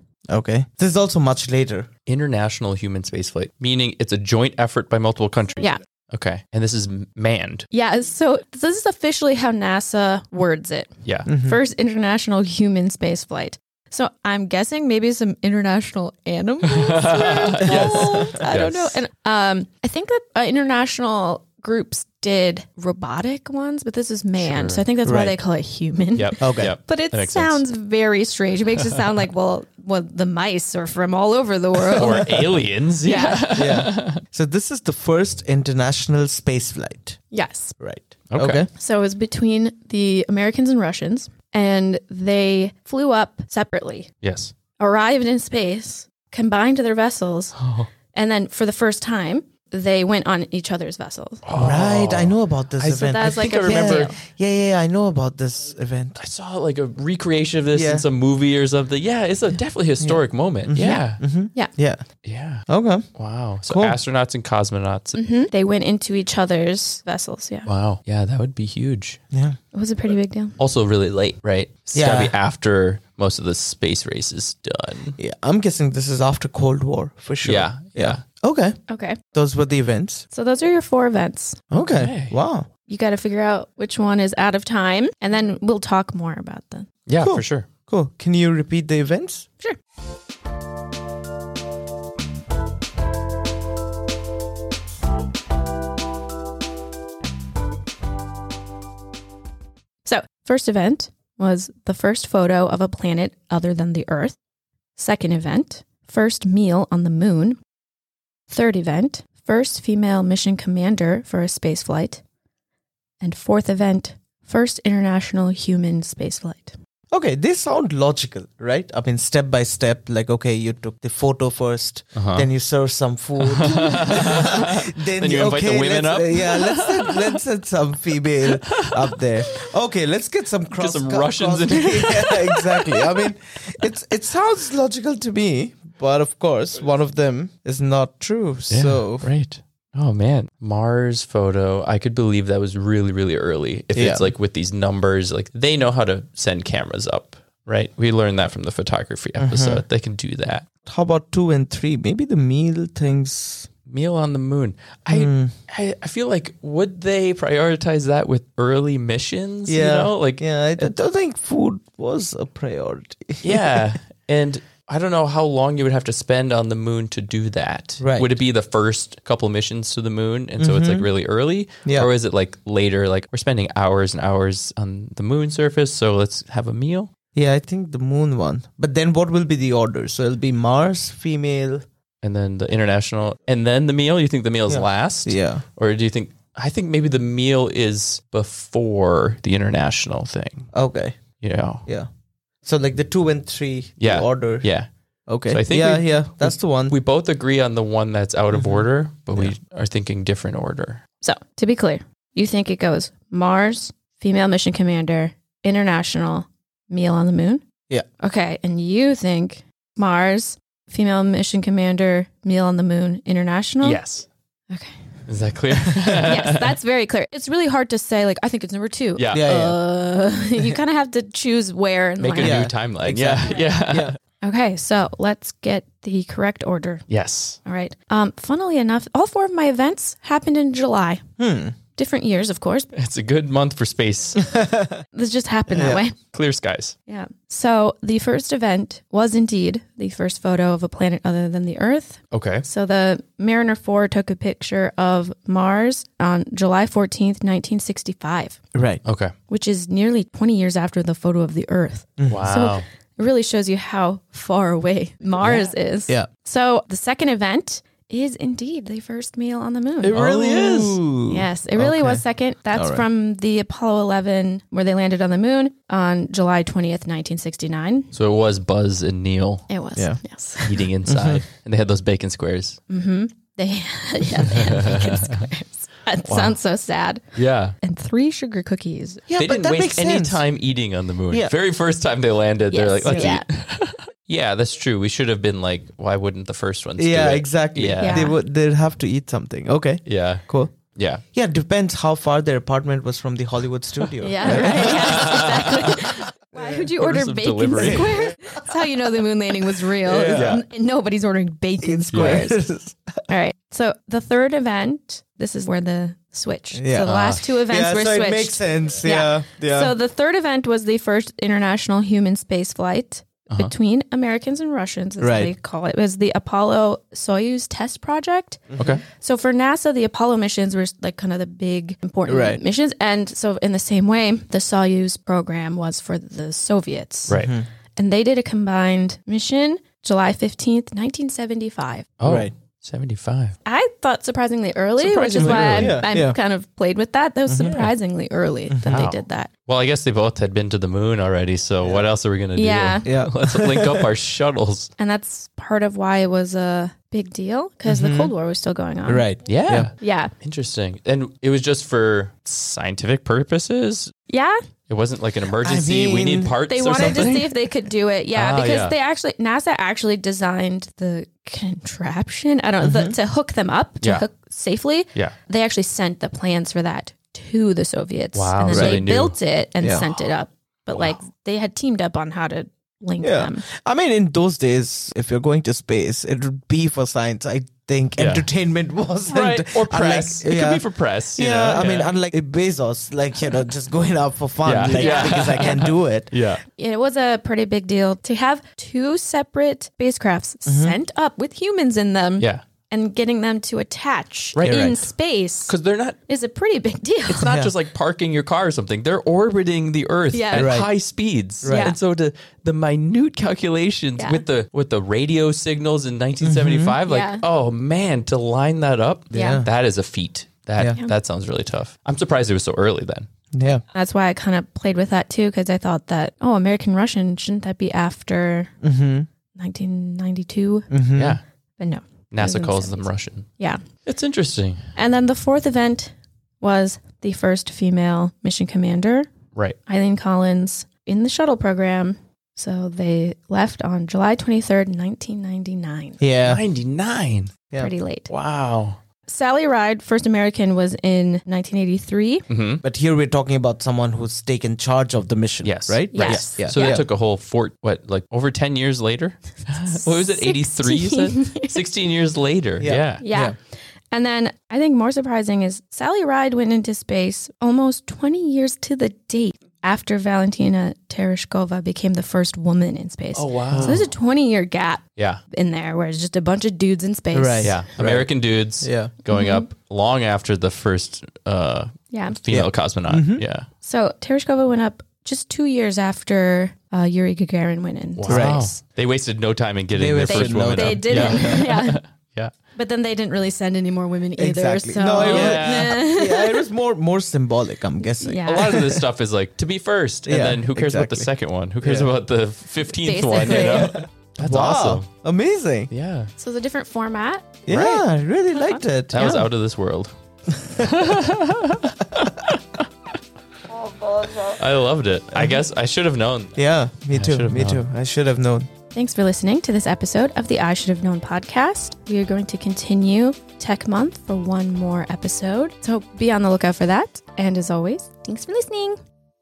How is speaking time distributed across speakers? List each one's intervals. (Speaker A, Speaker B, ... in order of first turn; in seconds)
Speaker A: 0.3-1.9, 11.3-11.6, 17.6-18.2, 25.1-25.4, 26.4-26.8, 33.5-37.2, 37.8-38.7, 51.5-56.2, 57.7-58.1, 60.0-62.0, 62.7-64.0, 69.3-69.6, 71.9-72.3, 75.2-80.3, 81.7-82.7, 87.2-89.5, 117.1-139.3, 143.9-144.3, 149.4-149.8, 150.9-153.7, 155.1-155.6, 159.7-163.8, 168.0-168.3, 170.6-171.1, 171.8-172.1, 177.3-181.8, 184.7-185.6, 190.7-191.2, 192.6-194.7, 195.3-197.0, 198.5-199.6, 219.3-219.8, 222.4-224.2, 231.4-231.8, 234.4-235.0, 235.7-236.0, 248.7-249.0, 252.2-252.5, 255.4-256.3, 260.1-262.2, 262.7-263.1, 269.9-270.2, 271.1-271.4, 279.3-280.4, 281.3-281.6, 283.1-283.4, 287.0-290.8, 291.3-296.9, 300.1-300.6, 301.8-303.2, 306.7-310.0, 315.2-315.5, 318.7-319.0, 322.3-322.6, 327.3-327.7, 332.2-332.5, 335.4-336.4, 337.5-337.9, 338.7-339.1, 341.8-342.1, 343.1-344.1, 347.9-348.3, 349.1-349.9, 355.6-357.3, 362.8-363.2, 368.7-369.1, 369.8-370.3, 373.2-386.4, 390.7-391.0, 394.6-395.0, 397.4-397.7, 400.5-400.9, 401.6-402.0, 406.4-407.0, 409.3-409.7, 413.5-413.8, 418.8-419.3, 420.9-421.4, 436.2-436.6, 442.8-447.1, 452.8-453.6, 463.7-464.1, 467.3-469.1, 472.5-473.4, 478.3-478.7, 479.9-481.7, 484.4-488.9, 490.3-491.3, 491.8-492.1, 493.6-495.9, 497.7-499.4, 504.0-504.5, 506.6-508.7
Speaker B: 2.1-7.7, 11.0-11.3, 16.7-19.0, 24.4-24.9, 26.1-27.6, 28.8-29.1, 31.9-34.2, 38.3-38.6, 44.2-44.5, 47.6-47.9, 51.5-54.1, 56.2-61.2, 62.2-65.2, 67.7-69.2, 70.6-75.2, 77.4-78.2, 81.9-82.4, 87.1-87.7, 122.2-122.5, 123.4-127.4, 128.5-129.5, 130.7-132.4, 138.7-150.7, 153.9-160.9, 163.4-177.1, 182.2-190.7, 191.4-191.8, 194.0-194.9, 195.4-201.0, 213.8-214.3, 215.3-216.8, 219.2-219.5, 222.2-224.2, 227.1-227.6, 232.9-234.5, 236.3-236.9, 242.3-242.7, 249.1-249.3, 252.3-252.8, 260.0-261.0, 268.1-269.7, 270.6-272.8, 274.5-275.5, 276.2-276.6, 277.3-277.8, 279.4-288.4, 290.1-291.2, 294.4-296.1, 297.0-298.2, 300.3-300.6, 302.1-302.5, 307.1-307.4, 327.3-327.5, 332.2-333.5, 335.0-336.0, 338.9-344.9, 349.5-354.1, 354.9-357.7, 358.3-359.0, 364.0-364.3, 368.3-369.4, 378.2-378.5, 379.3-382.1, 384.6-386.6, 392.4-392.6, 394.6-395.1, 395.7-396.2, 397.3-413.3, 421.1-421.4, 422.3-423.5, 424.1-424.8, 436.4-437.6, 438.3-439.0, 442.5-442.8, 445.6-453.3, 463.3-464.1, 465.2-465.4, 467.6-473.7, 478.2-482.5, 485.2-486.0, 488.4-495.1, 495.9-496.3, 497.7-498.1, 499.1-502.8, 504.5-507.8
Speaker C: 7.7-33.5, 37.3-37.8, 38.8-44.1, 44.8-47.6, 48.1-51.4, 53.0-54.2, 65.1-67.7, 69.7-70.6, 78.9-79.2, 80.3-81.6, 82.9-86.9, 100.0-104.4, 105.0-107.6, 108.5-112.2, 113.2-116.8, 201.2-207.7, 208.2-214.0, 214.7-215.1, 216.1-222.6, 224.4-227.1, 227.6-231.3, 231.9-232.9, 235.1-236.2, 237.1-248.6, 249.5-260.2, 261.3-268.1, 269.7-270.9, 272.9-279.3, 282.7-283.5, 288.0-288.4, 294.2-302.6, 303.3-327.4, 328.0-332.1, 333.6-339.5, 342.6-343.1, 345.0-349.3, 350.0-350.3, 354.3-354.6, 356.7-373.6, 384.9-385.7, 386.8-395.8, 396.3-397.6, 400.3-400.8, 401.6-401.9, 404.2-404.4, 407.1-407.4, 409.3-409.6, 413.9-418.7, 419.6-420.9, 421.8-423.8, 424.9-429.3, 429.9-436.2, 437.8-438.3, 439.3-442.5, 446.1-447.0, 449.9-451.8, 453.2-453.6, 454.1-467.8, 469.3-469.7, 472.1-472.4, 473.8-478.8, 480.3-482.0, 482.8-486.6, 488.2-488.9, 493.0-494.0, 496.4-497.6, 498.5-499.5, 508.9-519.0